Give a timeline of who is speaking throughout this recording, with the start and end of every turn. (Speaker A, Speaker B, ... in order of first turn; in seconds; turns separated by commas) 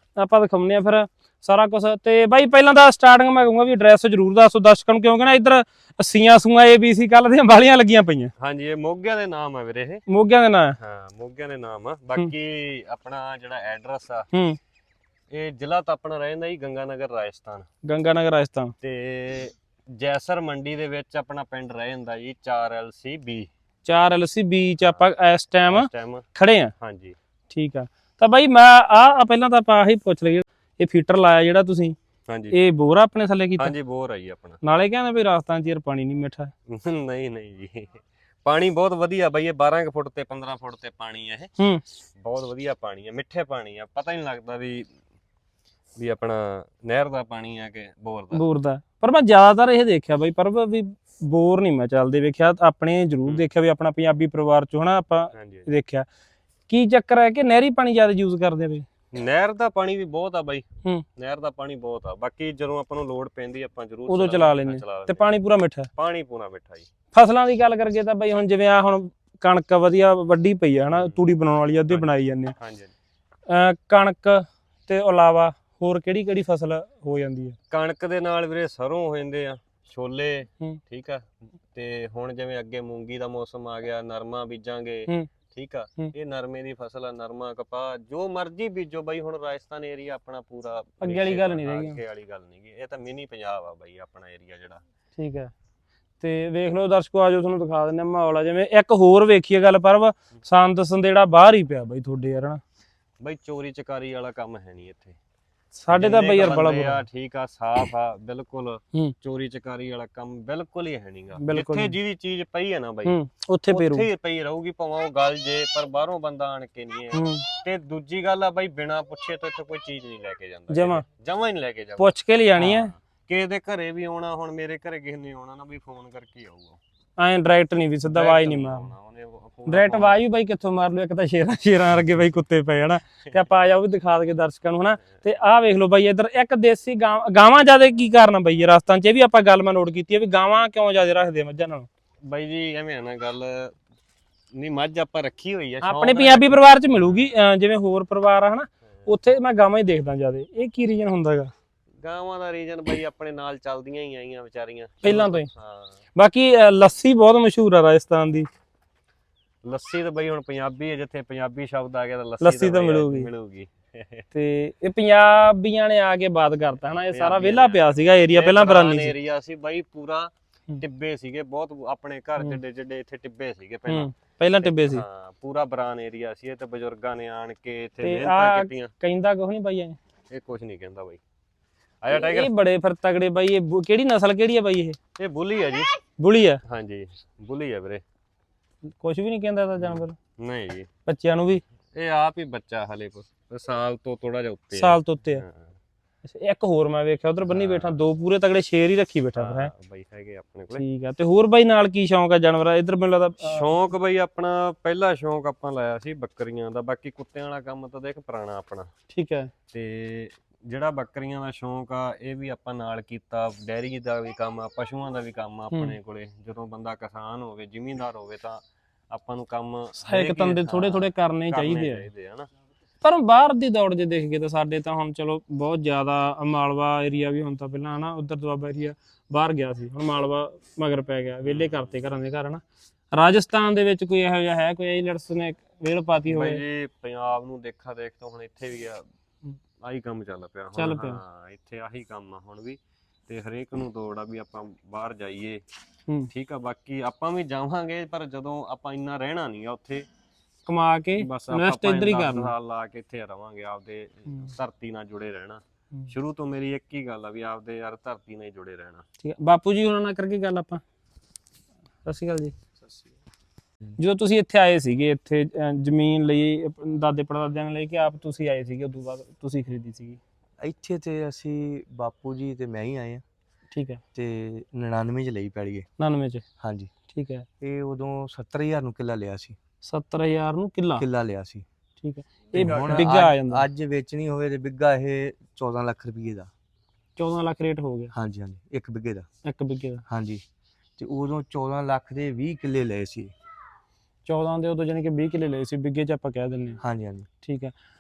Speaker A: 0.2-8.3, Speaker B: 8.4-10.0, Speaker A: 10.1-10.8, Speaker B: 10.8-14.3, Speaker A: 14.3-14.6, Speaker B: 15.3-17.7, Speaker A: 17.8-18.7, Speaker B: 18.8-23.5, Speaker A: 23.9-26.7, Speaker B: 25.7-26.2, Speaker B: 26.8-27.2, Speaker A: 27.5-32.0, Speaker B: 32.3-32.6, Speaker A: 32.5-33.7, Speaker B: 33.6-34.6, Speaker A: 34.6-36.5, Speaker B: 36.7-41.5, Speaker B: 42.2-44.9, Speaker B: 46.0-48.4, Speaker A: 48.3-56.1, Speaker B: 55.3-55.7, Speaker A: 56.7-58.9, Speaker B: 59.1-60.6, Speaker B: 61.2-65.3, Speaker A: 64.1-65.9, Speaker B: 66.0-66.9, Speaker A: 67.1-72.5, Speaker B: 70.9-71.2, Speaker B: 71.9-72.9, Speaker A: 73.5-77.6, Speaker B: 77.7-94.8, Speaker A: 91.0-92.0, Speaker A: 95.2-95.5, Speaker A: 96.2-102.6, Speaker B: 103.2-105.2, Speaker A: 105.7-107.0, Speaker B: 105.9-113.2, Speaker A: 111.4-112.0, Speaker A: 113.0-114.1, Speaker B: 113.7-126.8, Speaker A: 117.1-117.5, Speaker A: 120.7-121.0, Speaker A: 122.0-122.9, Speaker A: 127.2-128.9, Speaker B: 128.1-130.2, Speaker A: 129.7-141.9, Speaker B: 142.3-143.8, Speaker B: 144.6-147.2, Speaker A: 145.8-151.5, Speaker B: 152.0-156.0, Speaker A: 155.0-155.5, Speaker A: 156.2-158.5, Speaker B: 159.6-164.2, Speaker A: 162.4-163.3, Speaker A: 164.3-169.1, Speaker B: 167.1-174.1, Speaker A: 173.9-175.1, Speaker B: 174.6-178.9, Speaker A: 178.0-180.0, Speaker B: 180.3-181.2, Speaker B: 182.0-182.5, Speaker A: 182.1-185.0, Speaker B: 185.2-185.9, Speaker A: 186.2-186.6, Speaker B: 186.7-188.0, Speaker A: 189.0-190.2, Speaker B: 189.8-190.9, Speaker A: 191.1-191.6, Speaker B: 192.0-195.7, Speaker A: 194.7-195.4, Speaker A: 196.2-199.7, Speaker B: 197.5-198.0, Speaker B: 199.4-200.8, Speaker A: 200.7-203.7, Speaker B: 203.4-208.9, Speaker A: 209.1-209.5, Speaker B: 209.7-222.5, Speaker A: 220.0-222.1, Speaker A: 223.0-232.6, Speaker B: 231.4-232.0, Speaker A: 233.1-236.6, Speaker B: 236.3-239.0, Speaker B: 239.8-245.6, Speaker A: 240.8-241.2, Speaker B: 246.3-250.1, Speaker A: 250.7-252.5, Speaker B: 251.2-259.0, Speaker A: 259.2-260.8, Speaker A: 262.0-262.5, Speaker C: 262.8-263.1, Speaker A: 264.0-270.2, Speaker C: 270.6-273.2, Speaker A: 273.7-274.0, Speaker C: 274.1-275.9, Speaker A: 276.0-276.4, Speaker C: 276.6-276.9, Speaker A: 277.1-277.5, Speaker C: 277.6-279.6, Speaker A: 279.8-281.1, Speaker C: 281.0-281.6, Speaker A: 282.0-283.7, Speaker B: 282.5-283.1, Speaker C: 282.5-286.5, Speaker A: 287.2-288.1, Speaker C: 288.1-289.3, Speaker A: 289.4-290.0, Speaker C: 290.1-290.4, Speaker C: 291.0-293.3, Speaker A: 294.3-296.8, Speaker C: 296.8-297.3, Speaker A: 297.4-297.7